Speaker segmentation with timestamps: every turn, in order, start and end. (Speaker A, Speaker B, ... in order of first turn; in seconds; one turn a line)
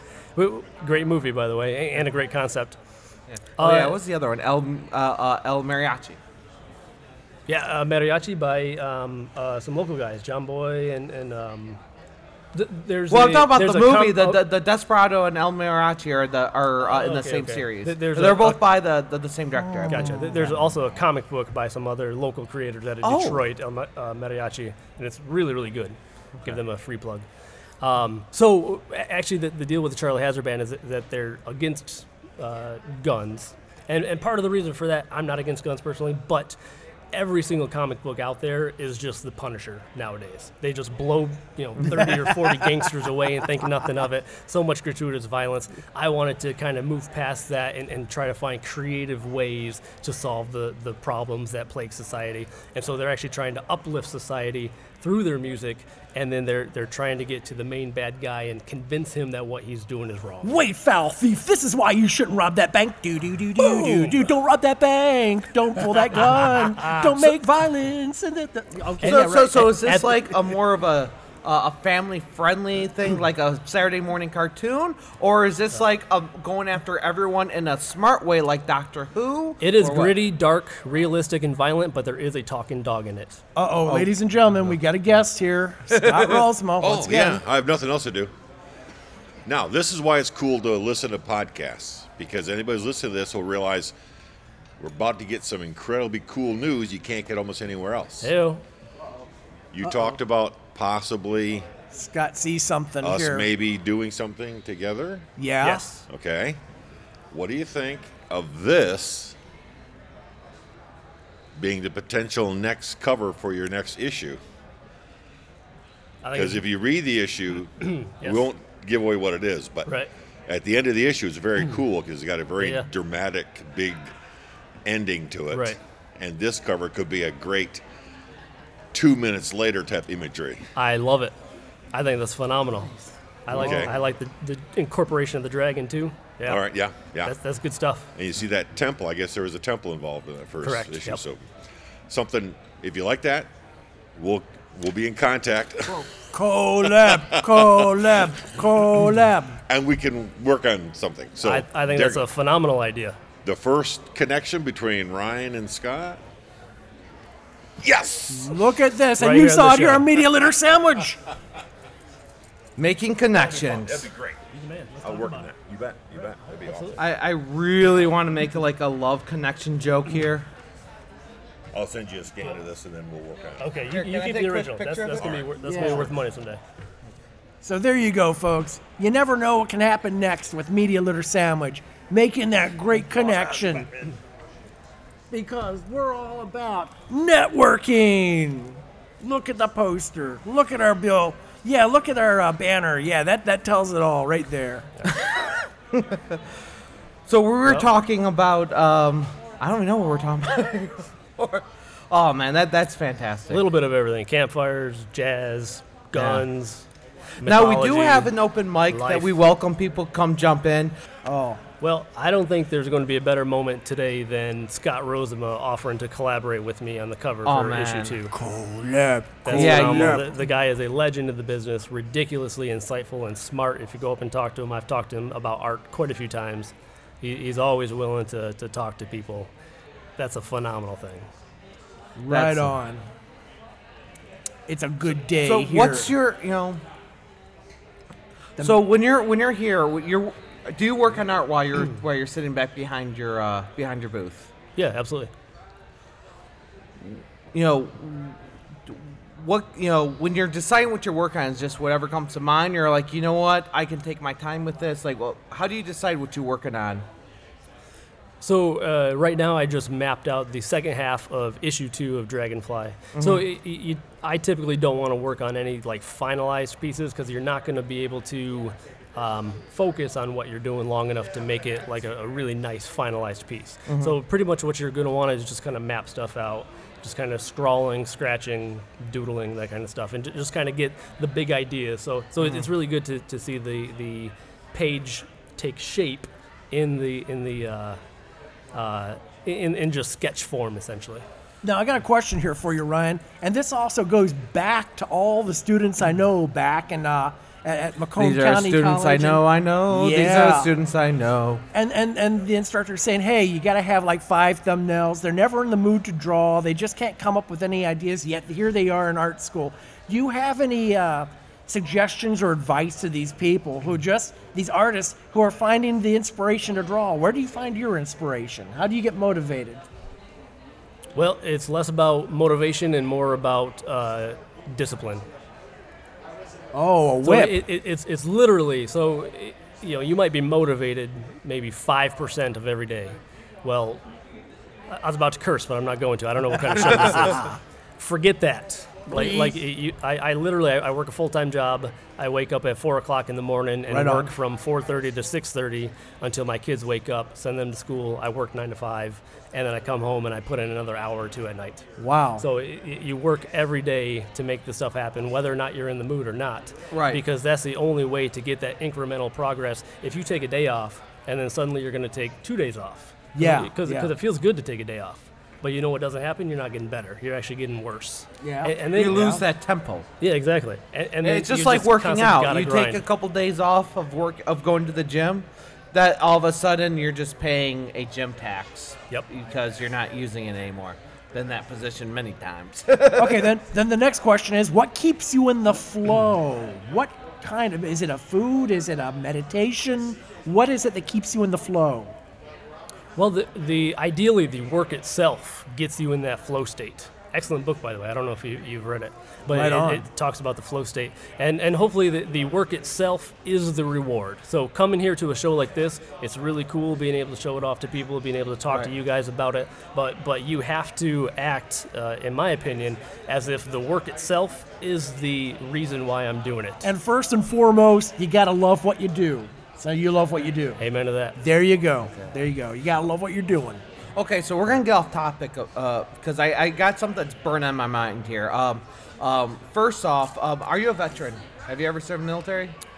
Speaker A: 0.3-2.8
Speaker B: 3.3-6.2
Speaker A: 3.6-4.0
Speaker A: 7.5-11.8
Speaker A: 12.5-14.4
Speaker B: 13.1-20.4
Speaker A: 16.8-18.6
Speaker C: 19.6-20.5
Speaker A: 19.9-27.2
Speaker B: 23.0-23.4
Speaker A: 27.8-36.6
Speaker A: 37.1-60.6
Speaker C: 42.0-42.6
Speaker C: 60.4-70.0
Speaker A: 63.7-64.2
Speaker A: 66.2-67.3
Speaker A: 69.0-70.3
Speaker B: 69.0-80.2
Speaker A: 79.6-83.4
Speaker C: 83.6-87.4
Speaker B: 85.9-86.5
Speaker D: 86.8-88.3
Speaker D: 89.5-93.9
Speaker D: 94.8-98.3
Speaker A: 98.2-98.6
Speaker D: 99.7-101.7
Speaker C: 101.9-103.5
Speaker D: 103.0-105.3
Speaker C: 105.4-105.9
Speaker A: 105.6-106.0
Speaker D: 106.1-106.6
Speaker D: 107.3-109.4
Speaker D: 111.6-114.4
Speaker A: 116.2-116.6
Speaker D: 116.3-119.9
Speaker A: 117.8-118.4
Speaker D: 120.5-124.1
Speaker A: 122.6-122.9
Speaker D: 124.8-127.8
Speaker A: 125.5-125.8
Speaker D: 128.9-130.7
Speaker A: 130.8-131.3
Speaker A: 131.9-136.6
Speaker D: 133.5-133.9
Speaker D: 136.5-137.3
Speaker A: 137.2-138.1
Speaker D: 138.1-141.4
Speaker A: 140.6-141.2
Speaker D: 142.1-143.5
Speaker D: 144.1-146.1
Speaker C: 146.0-149.6
Speaker D: 146.8-148.2
Speaker D: 149.7-152.3
Speaker A: 151.4-153.2
Speaker D: 153.4-156.2
Speaker D: 157.8-158.6
Speaker C: 158.3-161.2
Speaker A: 159.2-160.1
Speaker B: 162.8-164.1
Speaker D: 163.5-164.4
Speaker A: 164.5-165.5
Speaker D: 165.0-166.9
Speaker A: 166.2-167.1
Speaker B: 167.0-170.5
Speaker D: 171.7-173.7
Speaker A: 173.6-176.6
Speaker B: 173.9-175.4
Speaker D: 175.2-175.5
Speaker C: 175.6-176.1
Speaker C: 177.6-183.9
Speaker C: 185.3-195.2
Speaker B: 195.9-196.2
Speaker B: 197.3-203.6
Speaker A: 203.5-206.9
Speaker B: 206.1-206.4
Speaker A: 207.4-208.3
Speaker B: 207.4-210.9
Speaker A: 208.9-209.3
Speaker C: 211.2-211.6
Speaker A: 211.8-218.3
Speaker B: 217.4-218.2
Speaker C: 218.3-220.3
Speaker A: 219.4-229.5
Speaker B: 219.5-220.3
Speaker A: 230.2-231.3
Speaker C: 232.2-233.0
Speaker B: 232.3-232.7
Speaker C: 234.7-236.1
Speaker B: 235.4-236.8
Speaker B: 238.6-244.5
Speaker A: 244.8-245.3
Speaker B: 247.5-248.4
Speaker B: 248.9-257.1
Speaker A: 258.4-288.0
Speaker B: 263.1-263.4
Speaker B: 273.9-274.1
Speaker B: 282.4-282.7
Speaker A: 288.7-291.2
Speaker C: 291.6-300.7
Speaker B: 298.1-301.6
Speaker C: 301.7-319.9
Speaker A: 321.1-325.3
Speaker C: 326.7-327.6
Speaker A: 327.2-334.0
Speaker A: 334.9-351.9
Speaker C: 339.1-339.6
Speaker C: 343.9-344.3
Speaker C: 352.0-352.5
Speaker A: 352.4-369.4
Speaker B: 356.9-357.2
Speaker C: 363.4-364.1
Speaker C: 368.4-369.4
Speaker B: 368.9-370.1
Speaker A: 370.2-373.0
Speaker B: 371.2-383.5
Speaker C: 383.1-392.1
Speaker A: 393.1-416.9
Speaker C: 399.5-400.1
Speaker C: 416.8-420.8
Speaker A: 420.8-421.4
Speaker C: 421.4-423.8
Speaker B: 424.1-432.7